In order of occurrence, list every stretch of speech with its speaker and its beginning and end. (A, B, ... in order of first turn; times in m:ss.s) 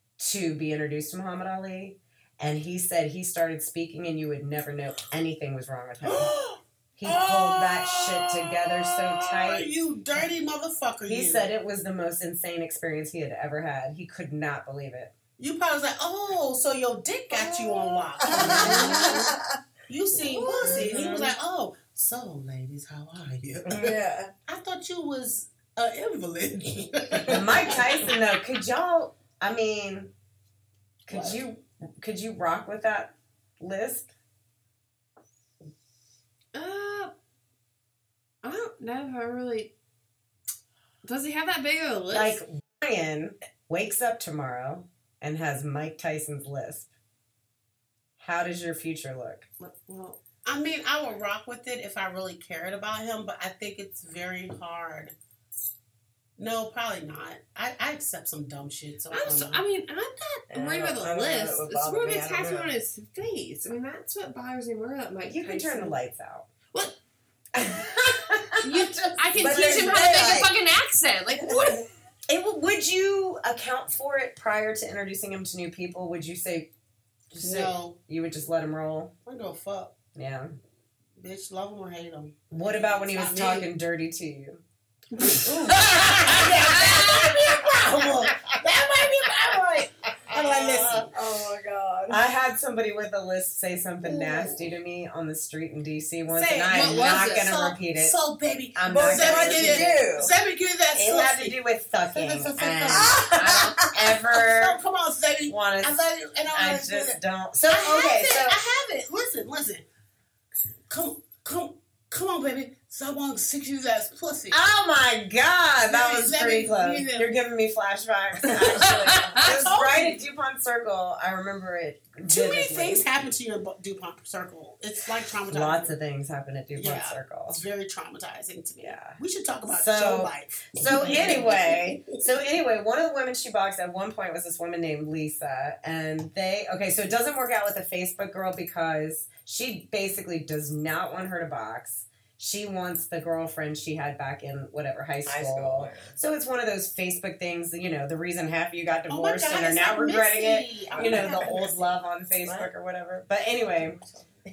0:00.2-0:06.4 A
0:06.0-0:11.5 B
0:07.0-0:10.3 A
0:11.1-0:15.1 A
0:15.4-0:19.3 B
0:17.4-0:19.5 C
0:18.5-0:19.3 D
0:18.5-0:18.8 A
0:19.9-0:24.0 B
0:20.5-0:21.3 C
0:20.6-0:20.9 D
0:23.7-0:24.3 C
0:24.5-0:28.2 B
0:27.2-0:27.5 C
0:27.3-0:30.1 A
0:31.1-0:34.1 A
0:31.1-0:31.4 B
0:36.5-0:37.1 D
0:38.4-0:39.7 D
0:41.0-0:42.4 D
0:42.1-0:46.9 A
0:48.2-0:49.5 A
0:49.6-0:50.2 D
0:50.4-0:55.2 B
0:56.4-0:59.6 B
0:59.1-1:06.0 D
1:00.5-1:02.7 C
1:05.3-1:06.5 A
1:07.6-1:08.7 A
1:08.6-1:11.9 D
1:08.7-1:10.4 B
1:09.4-1:10.5 C
1:11.4-1:11.8 C
1:12.3-1:16.7 A
1:17.3-1:19.1 A
1:17.4-1:18.0 B
1:19.3-1:20.0 B
1:20.2-1:20.5 A
1:21.2-1:22.4 B
1:22.5-1:24.6 A
1:23.1-1:23.7 B
1:25.5-1:31.1 B
1:25.6-1:27.4 D
1:30.3-1:32.2 C
1:32.1-1:38.2 A
1:34.0-1:34.6 B
1:36.3-1:41.6 B
1:36.7-1:37.5 D
1:38.8-1:40.0 A
1:38.9-1:40.3 C
1:40.9-1:44.8 A
1:42.1-1:49.9 B
1:42.9-1:43.9 C
1:45.5-1:45.9 A
1:46.5-1:48.6 A
1:50.9-1:54.6 B
1:54.5-2:03.0 A
1:55.9-1:57.3 B
1:58.5-1:59.5 C
1:58.8-1:59.4 D
1:59.3-2:00.2 B
2:02.3-2:05.9 B
2:05.5-2:07.6 A
2:06.8-2:12.2 B
2:08.8-2:09.2 A
2:09.7-2:34.0 A
2:11.0-2:11.4 C
2:25.3-2:26.2 C
2:29.1-2:32.0 B
2:30.9-2:31.6 C
2:32.4-2:32.7 C
2:33.8-2:34.4 C